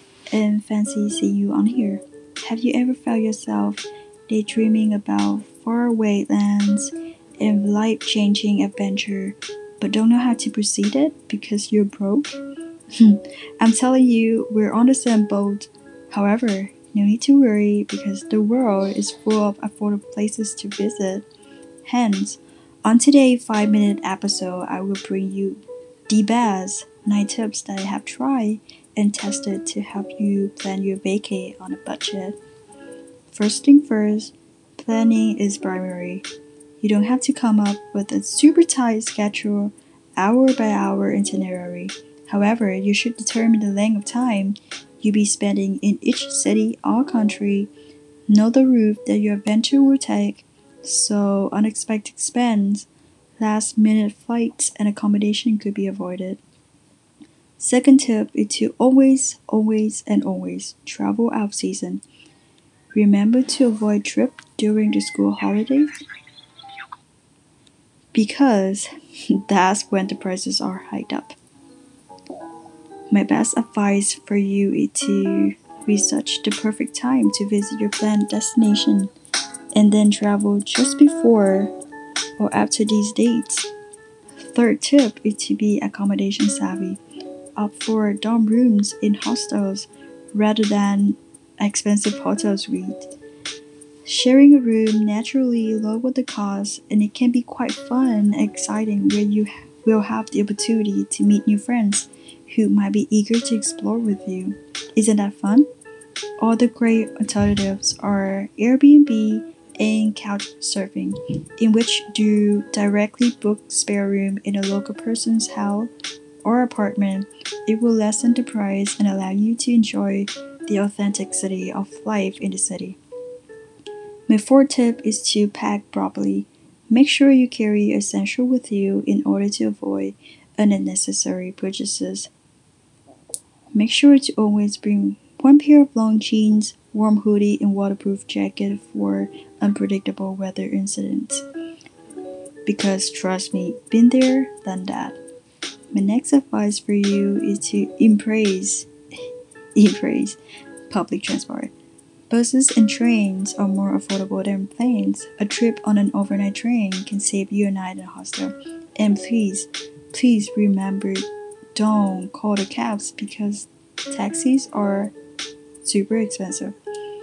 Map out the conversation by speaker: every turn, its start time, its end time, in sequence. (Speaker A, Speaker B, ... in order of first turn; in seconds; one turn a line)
Speaker A: 0.3-12.4
Speaker A: 12.9-21.2
Speaker A: 21.9-32.4
Speaker A: 33.3-36.3
Speaker A: 36.8-47.7
Speaker A: 48.3-52.9
Speaker A: 53.4-56.4
Speaker A: 57.6-62.0
Speaker A: 62.9-66.0
Speaker A: 68.1-68.9
Speaker A: 69.4-71.4
Speaker A: 73.1-79.1
Speaker A: 79.8-81.7
Speaker A: 82.4-83.7
Speaker A: 84.4-87.0
Speaker A: 87.6-93.1
Speaker A: 94.0-105.7
Speaker A: 106.4-115.9
Speaker A: 116.4-123.0
Speaker A: 124.3-132.3
Speaker A: 133.7-141.4
Speaker A: 142.7-145.2
Speaker A: 145.9-148.9
Speaker A: 149.8-150.4
Speaker A: 150.9-151.7
Speaker A: 152.3-165.1
Speaker A: 165.8-166.8